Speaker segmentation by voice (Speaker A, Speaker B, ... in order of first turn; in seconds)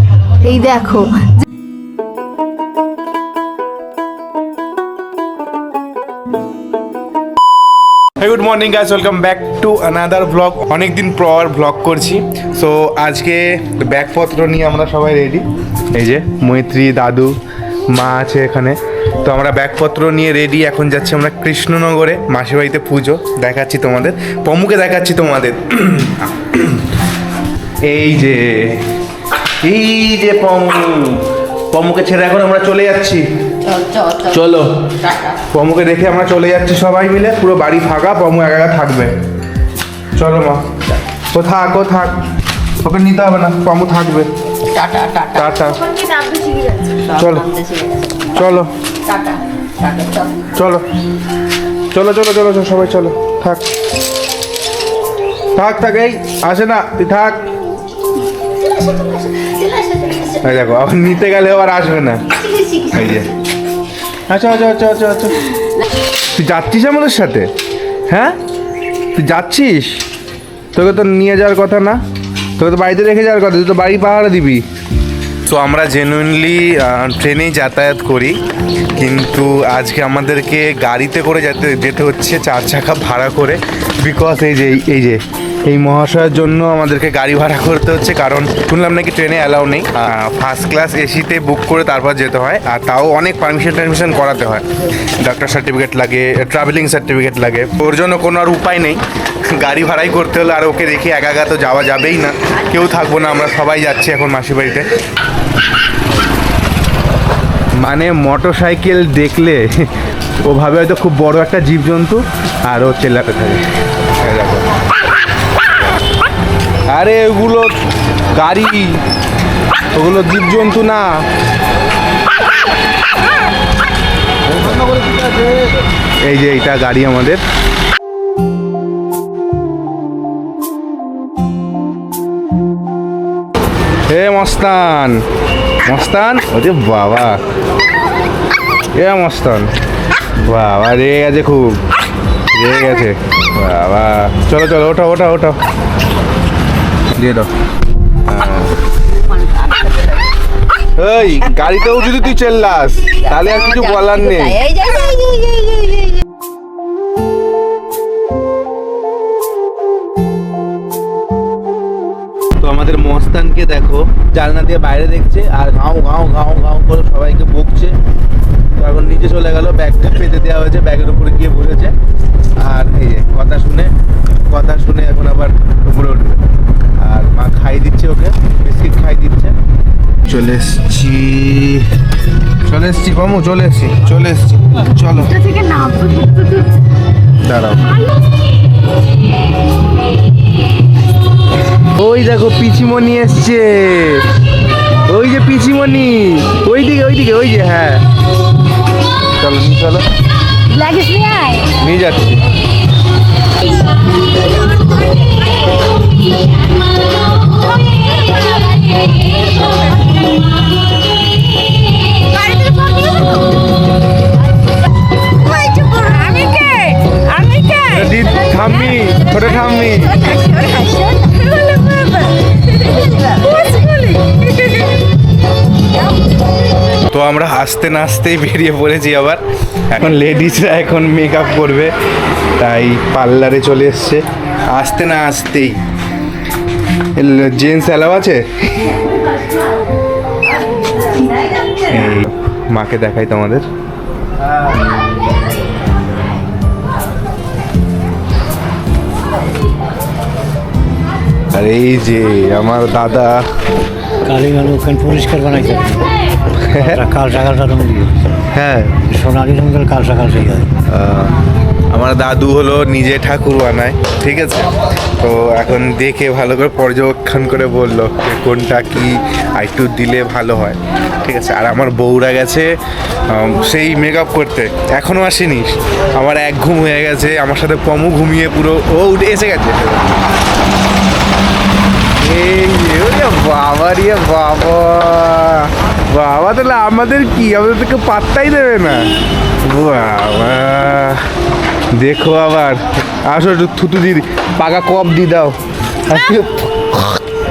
Speaker A: 0.4-1.4, 45.7-47.0, 185.3-186.7, 200.7-201.7, 208.2-208.9, 212.2-213.4, 215.4-218.2, 220.1-225.0, 296.1-296.4
Speaker B: 8.2-17.4, 17.9-26.9, 27.8-28.9, 29.6-33.3, 34.2-35.0, 35.5-39.1, 40.1-40.7, 41.3-42.2, 42.8-44.3, 45.3-45.8, 47.1-47.5, 48.3-48.7, 50.5-50.8, 51.9-53.7, 55.5-57.5, 60.4-63.3, 64.3-65.4, 66.3-67.5, 68.1-68.4, 69.1-70.0, 70.7-72.0, 72.6-74.6, 75.4-78.4, 78.9-104.9, 107.8-109.9, 110.4-114.7, 116.9-117.8, 118.3-119.0, 119.9-121.2, 124.5-125.5, 126.2-127.4, 134.1-135.2, 135.8-137.4, 138.9-139.7, 140.4-141.9, 142.5-145.6, 147.1-147.5, 148.2-148.8, 150.9-154.6, 162.6-167.9, 168.7-171.9, 172.6-173.9, 174.4-176.4, 177.0-179.6, 180.2-182.0, 182.6-185.4, 187.4-188.0, 191.8-194.3, 195.1-198.0, 199.3-200.1, 201.8-202.4, 217.9-220.2, 227.1-231.9, 232.6-235.8, 237.2-239.0, 241.8-243.7, 251.5-253.5, 256.6-257.0, 258.5-259.0, 260.8-261.4, 261.9-280.1, 282.1-289.1, 289.6-291.2, 291.9-297.2
Speaker C: 33.7-34.3, 44.7-45.4, 47.1-48.3, 49.1-50.3, 58.9-60.2, 153.3-156.2
Speaker D: 254.2-256.1, 256.7-258.2, 259.0-260.7